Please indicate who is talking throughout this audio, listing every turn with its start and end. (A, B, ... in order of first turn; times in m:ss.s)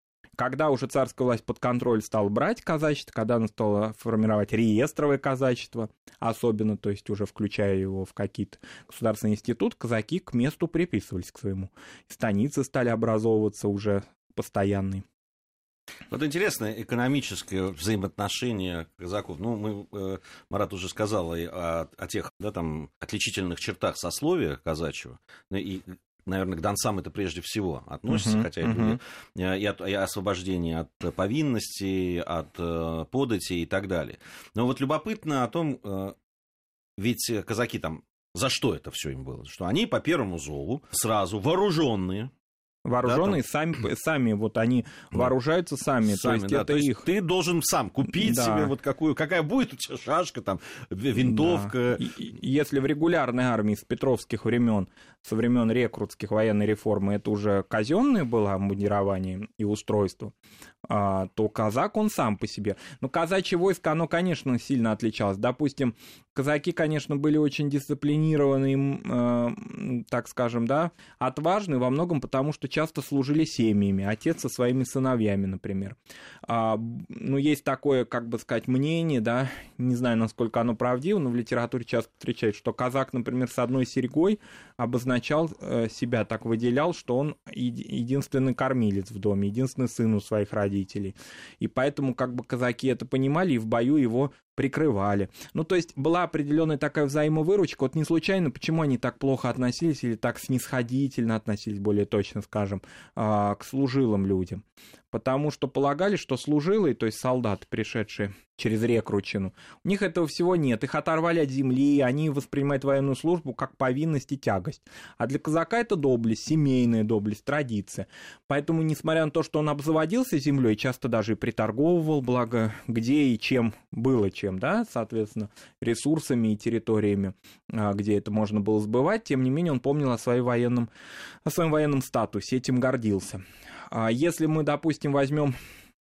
0:00.4-0:15.0 A
0:16.1-0:36.2 B
0:28.1-0:29.0 A
0:37.0-0:42.3 B
0:42.8-0:47.0 A
0:43.0-0:43.4 B
0:46.0-0:52.0 B
0:48.1-0:48.7 A
0:51.2-1:00.3 A
1:00.9-2:10.9 A
2:11.4-2:15.5 A